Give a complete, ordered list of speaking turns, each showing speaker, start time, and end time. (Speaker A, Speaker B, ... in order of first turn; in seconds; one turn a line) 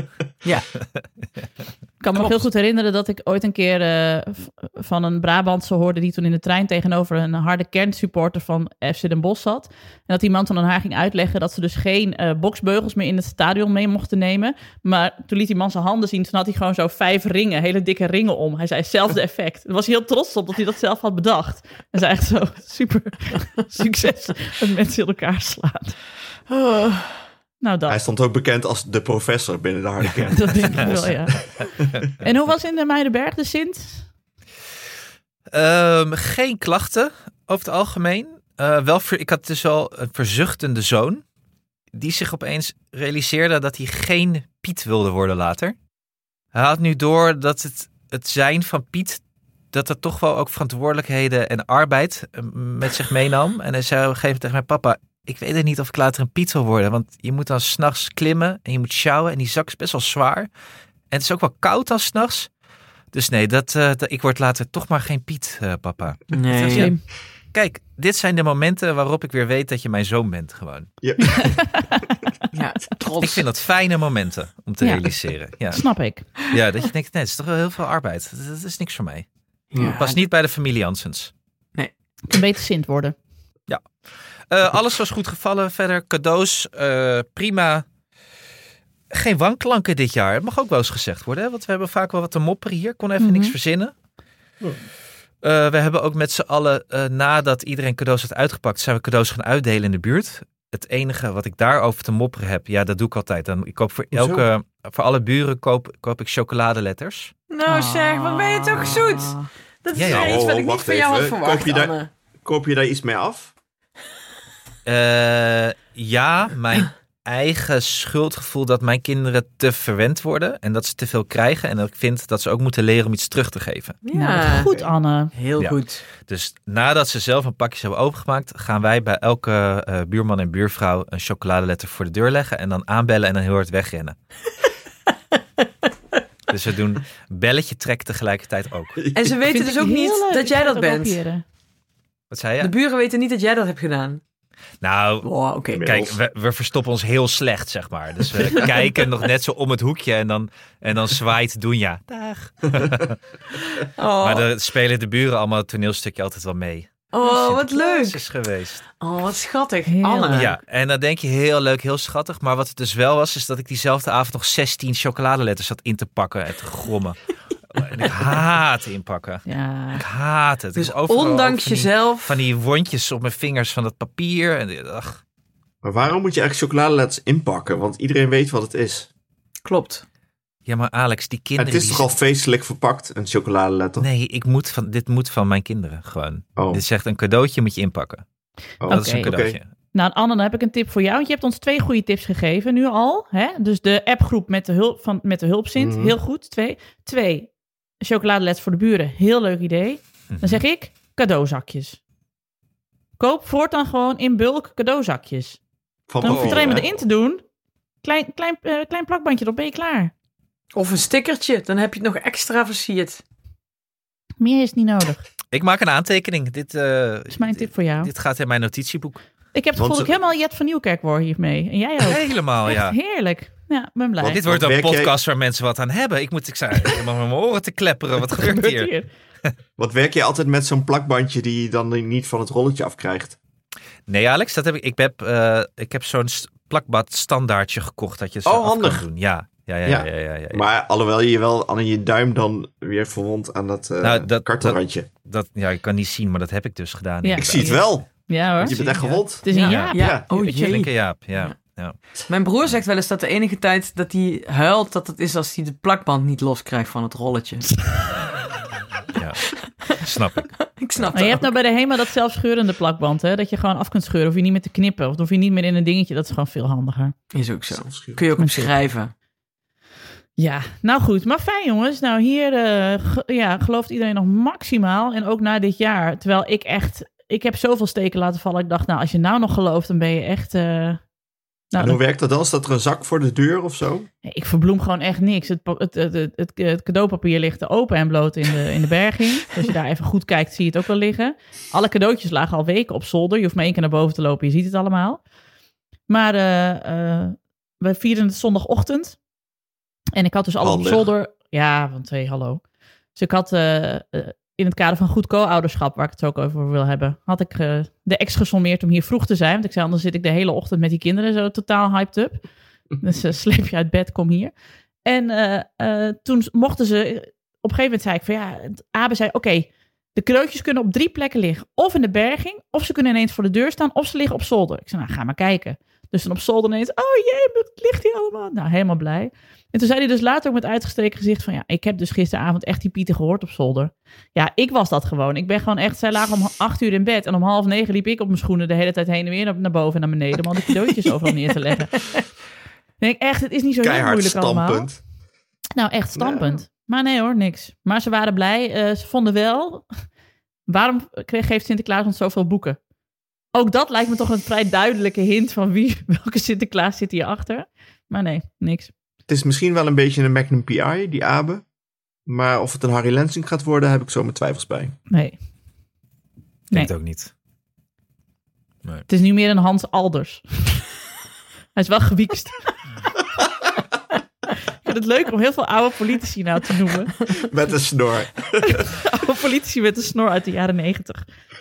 Speaker A: 0.4-0.7
Speaker B: 0.8-1.0
Speaker C: 2.0-26.0
Speaker A: 2.1-2.4
Speaker A: 26.5-27.2
Speaker C: 27.6-28.0
Speaker D: 27.9-31.9
Speaker C: 30.3-31.4
Speaker C: 32.2-34.1
Speaker B: 35.5-41.2
Speaker B: 41.9-45.7
Speaker B: 46.5-60.5
Speaker B: 61.1-62.5
Speaker B: 63.1-67.0
Speaker A: 66.3-66.9
Speaker C: 66.7-67.0
Speaker B: 67.5-70.9
Speaker D: 71.0-71.8
Speaker C: 71.2-72.0
Speaker A: 72.5-73.5
Speaker B: 73.2-75.9
Speaker C: 74.8-75.1
Speaker C: 75.7-76.3
Speaker B: 76.4-79.2
Speaker A: 79.8-80.2
Speaker B: 79.9-81.3
Speaker C: 82.3-83.2
Speaker B: 84.5-87.8
Speaker B: 89.1-93.9
Speaker C: 93.2-93.5
Speaker B: 95.4-107.3
Speaker D: 104.1-104.4
Speaker A: 107.5-112.1
Speaker C: 107.7-109.3
Speaker B: 109.9-110.4
Speaker D: 110.0-113.5
Speaker B: 114.8-124.0
Speaker A: 124.0-124.7
Speaker C: 124.1-125.3
Speaker A: 125.3-126.0
Speaker B: 125.6-134.1
Speaker B: 136.5-139.0
Speaker D: 139.0-139.3
Speaker A: 139.1-141.2
Speaker C: 139.4-141.4
Speaker B: 142.3-142.7
Speaker A: 142.6-144.2
Speaker B: 144.8-145.3
Speaker A: 145.2-145.8
Speaker D: 145.7-146.2
Speaker B: 145.8-153.2
Speaker A: 153.8-154.5
Speaker B: 154.2-158.8
Speaker A: 157.1-158.2
Speaker A: 159.0-160.6
Speaker C: 159.9-160.5
Speaker B: 160.3-167.2
Speaker B: 167.7-175.2
Speaker C: 169.4-170.0
Speaker A: 170.8-172.4
Speaker D: 175.8-179.1
Speaker A: 179.6-180.0
Speaker B: 180.7-182.1
Speaker D: 181.6-184.1
Speaker B: 184.0-188.2
Speaker D: 186.6-186.8
Speaker D: 188.8-189.6
Speaker B: 188.9-189.7
Speaker C: 188.9-189.3
Speaker C: 189.9-202.0
Speaker D: 195.8-196.1
Speaker B: 200.3-200.6
Speaker C: 203.2-205.6
Speaker D: 206.1-206.9
Speaker C: 206.2-207.4
Speaker B: 206.2-206.8
Speaker C: 208.0-210.1
Speaker A: 210.7-213.2
Speaker C: 214.4-215.2
Speaker B: 215.5-219.2
Speaker C: 217.3-218.1
Speaker C: 219.5-224.4
Speaker D: 219.8-220.1
Speaker B: 222.0-223.0
Speaker D: 224.2-225.2
Speaker B: 224.2-228.9
Speaker C: 228.3-229.1
Speaker D: 229.8-233.4
Speaker B: 234.1-240.7
Speaker D: 238.4-239.1
Speaker D: 239.8-245.1
Speaker B: 244.0-247.8
Speaker C: 247.2-248.8
Speaker D: 247.4-250.2
Speaker B: 248.6-250.0
Speaker C: 249.4-250.8
Speaker A: 249.4-251.6
Speaker B: 250.6-252.0
Speaker A: 252.3-257.8
Speaker B: 259.1-261.1
Speaker A: 259.7-260.0
Speaker A: 260.6-261.6
Speaker C: 261.1-267.1
Speaker A: 267.3-269.1
Speaker D: 267.7-268.2
Speaker C: 268.4-268.7
Speaker C: 270.4-281.0
Speaker C: 281.7-282.0
Speaker D: 281.8-284.1
Speaker C: 284.2-295.2
Speaker C: 296.1-299.2
Speaker C: 300.1-302.6
Speaker D: 300.6-301.1
Speaker C: 303.1-312.4
Speaker C: 313.0-314.5
Speaker C: 315.0-341.9
Speaker C: 343.0-344.9
Speaker D: 343.8-345.0
Speaker C: 345.8-349.9
Speaker D: 346.1-346.6
Speaker C: 350.7-352.8
Speaker C: 353.5-358.9
Speaker D: 359.3-361.6
Speaker D: 362.2-364.9
Speaker C: 365.1-365.4
Speaker B: 366.7-367.3
Speaker C: 369.1-370.8
Speaker C: 371.7-372.6
Speaker C: 374.8-377.2
Speaker D: 377.3-378.9
Speaker C: 378.7-381.2